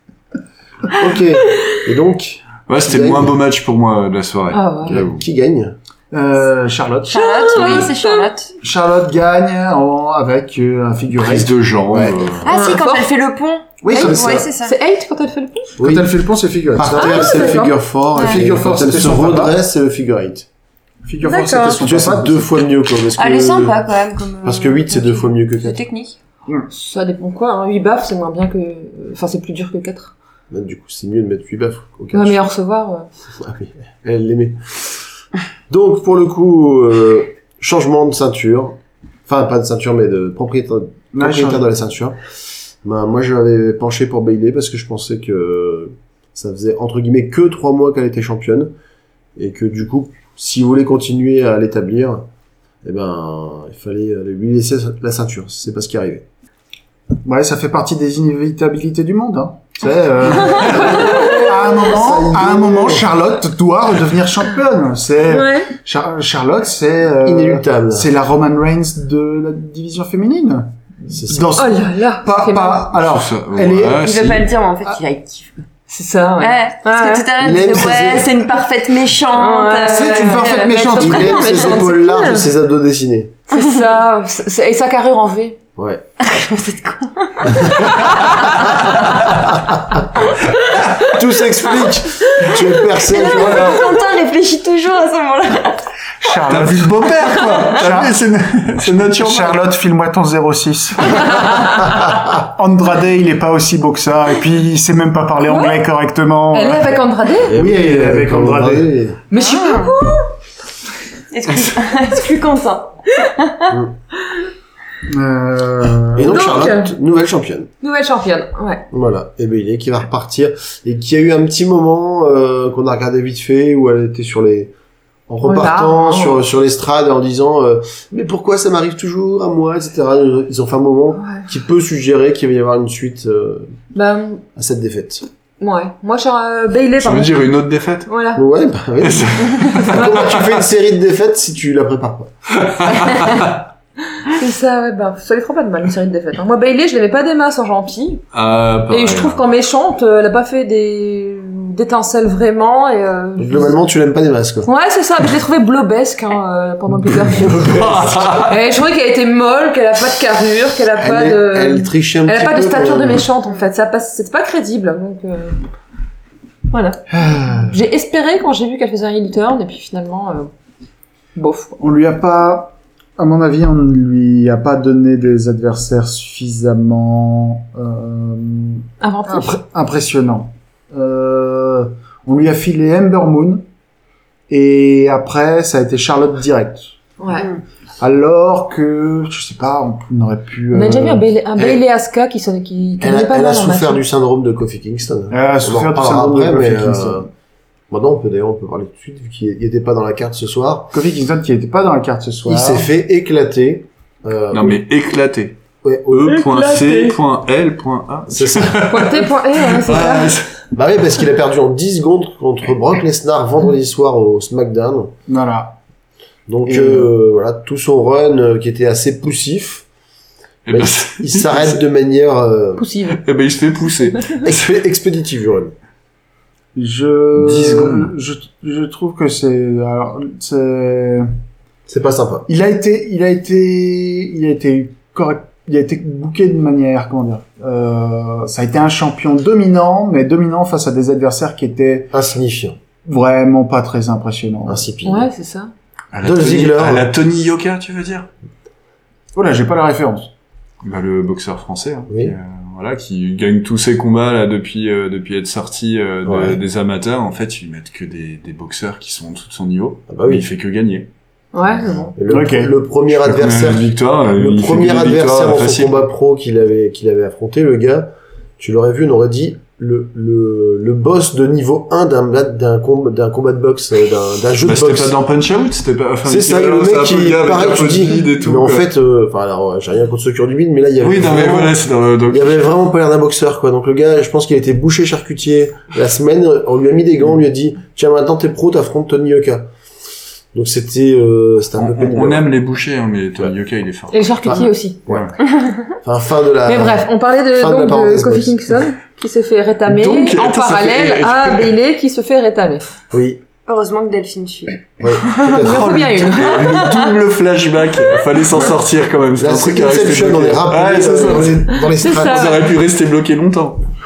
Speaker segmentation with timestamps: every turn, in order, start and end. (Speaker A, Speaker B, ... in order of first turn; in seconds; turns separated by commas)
Speaker A: 0.9-3.4, Speaker B: 2.7-5.2, Speaker C: 4.5-5.0, Speaker A: 4.9-5.8, Speaker D: 6.1-7.9, Speaker E: 7.1-8.5, Speaker C: 7.1-8.3, Speaker D: 8.6-11.5, Speaker B: 11.2-12.5, Speaker A: 11.9-12.2, Speaker E: 12.4-14.8, Speaker C: 12.5-13.1, Speaker D: 13.8-14.4, Speaker C: 13.9-15.8, Speaker A: 13.9-14.4, Speaker A: 15.8-16.1, Speaker D: 15.8-17.6, Speaker A: 16.7-20.5, Speaker C: 16.9-17.8, Speaker E: 18.2-18.4, Speaker D: 18.2-19.5, Speaker D: 21.1-22.6, Speaker C: 21.2-21.8, Speaker A: 21.6-23.8, Speaker E: 23.1-26.2, Speaker A: 24.4-25.8, Speaker C: 26.7-30.1, Speaker A: 30.5-32.4, Speaker C: 32.1-33.1, Speaker A: 33.4-35.0, Speaker A: 35.7-42.2, Speaker D: 41.1-41.6, Speaker A: 42.8-48.7, Speaker A: 49.4-52.3, Speaker A: 52.8-56.2, Speaker D: 57.2-74.0, Speaker A: 60.2-63.1, Speaker C: 60.6-61.4, Speaker C: 65.3-65.7, Speaker A: 67.2-68.1, Speaker A: 71.1-71.5, Speaker C: 71.6-73.0, Speaker B: 73.0-74.5, Speaker E: 74.0-75.6, Speaker C: 75.9-77.3, Speaker E: 76.4-81.7, Speaker A: 77.4-78.5, Speaker C: 79.3-82.5, Speaker D: 79.9-81.4, Speaker A: 81.0-83.4, Speaker C: 83.5-85.6, Speaker A: 85.8-86.0, Speaker E: 86.2-88.4, Speaker A: 89.2-89.6, Speaker A: 91.0-93.8, Speaker E: 93.0-95.9, Speaker B: 93.3-93.8, Speaker D: 96.2-106.9, Speaker B: 96.5-99.7, Speaker C: 105.5-105.8, Speaker C: 106.5-107.6, Speaker A: 107.5-109.2, Speaker D: 107.5-108.9, Speaker C: 109.3-110.3, Speaker E: 109.3-109.9, Speaker E: 111.3-112.9, Speaker E: 113.5-113.7, Speaker A: 113.7-113.9, Speaker D: 115.1-116.5, Speaker A: 116.2-117.7, Speaker C: 116.3-117.0, Speaker C: 117.8-118.8, Speaker A: 118.9-124.7, Speaker A: 125.3-133.7, Speaker C: 125.4-126.4, Speaker C: 131.2-131.5, Speaker C: 133.9-134.4, Speaker A: 134.6-135.2, Speaker C: 135.6-137.4, Speaker B: 137.0-138.1, Speaker C: 138.1-138.4, Speaker A: 138.3-142.5, Speaker B: 139.0-140.7, Speaker B: 142.7-143.6, Speaker C: 144.2-148.2, Speaker B: 148.3-149.4, Speaker C: 148.9-153.8, Speaker A: 153.4-154.7, Speaker C: 154.7-165.6, Speaker B: 157.2-158.6, Speaker A: 157.7-158.1, Speaker A: 161.0-163.3, Speaker C: 166.7-167.0, Speaker D: 167.1-167.8, Speaker C: 167.7-170.5, Speaker C: 171.4-171.8, Speaker D: 171.8-183.7, Speaker C: 179.0-179.6, Speaker D: 184.5-186.9, Speaker C: 187.2-187.5, Speaker D: 188.0-191.2, Speaker C: 190.7-194.0, Speaker A: 191.6-191.8, Speaker A: 193.0-197.3, Speaker D: 195.3-197.3, Speaker A: 197.9-200.9, Speaker D: 200.9-202.9, Speaker A: 202.4-204.8, Speaker B: 204.5-205.6, Speaker A: 205.8-206.4, Speaker B: 206.1-210.5, Speaker C: 206.3-207.2, Speaker A: 208.3-209.1, Speaker C: 208.9-210.4, Speaker A: 210.7-215.1, Speaker D: 215.3-215.8, Speaker A: 216.5-219.9, Speaker D: 216.7-217.1, Speaker B: 220.7-221.8, Speaker A: 220.7-222.9, Speaker C: 222.8-223.2, Speaker B: 223.1-224.6, Speaker A: 224.4-225.7, Speaker D: 226.8-231.3, Speaker B: 227.3-228.1, Speaker A: 231.9-232.5, Speaker D: 232.5-242.1, Speaker A: 242.1-242.8, Speaker D: 243.1-244.8, Speaker A: 244.7-245.3, Speaker C: 245.0-245.7, Speaker B: 246.1-248.3, Speaker A: 246.2-247.1, Speaker D: 249.3-250.3, Speaker B: 250.8-261.1, Speaker A: 252.1-252.3, Speaker A: 256.2-256.6, Speaker A: 260.1-260.4, Speaker C: 261.5-262.1, Speaker A: 262.2-275.1, Speaker D: 262.3-262.7, Speaker B: 263.1-266.0, Speaker B: 274.6-278.9, Speaker A: 276.2-281.8, Speaker B: 281.0-282.7, Speaker A: 282.3-289.7, Speaker A: 290.5-292.5, Speaker B: 291.8-294.2, Speaker C: 294.1-295.0, Speaker A: 294.4-295.4, Speaker B: 295.1-295.4, Speaker A: 296.0-298.6, Speaker C: 296.7-302.9, Speaker B: 299.9-301.7, Speaker A: 303.1-303.4, Speaker E: 303.7-305.0, Speaker A: 305.0-306.4, Speaker C: 305.4-307.1, Speaker B: 305.6-313.9, Speaker A: 309.4-312.5, Speaker C: 311.1-312.6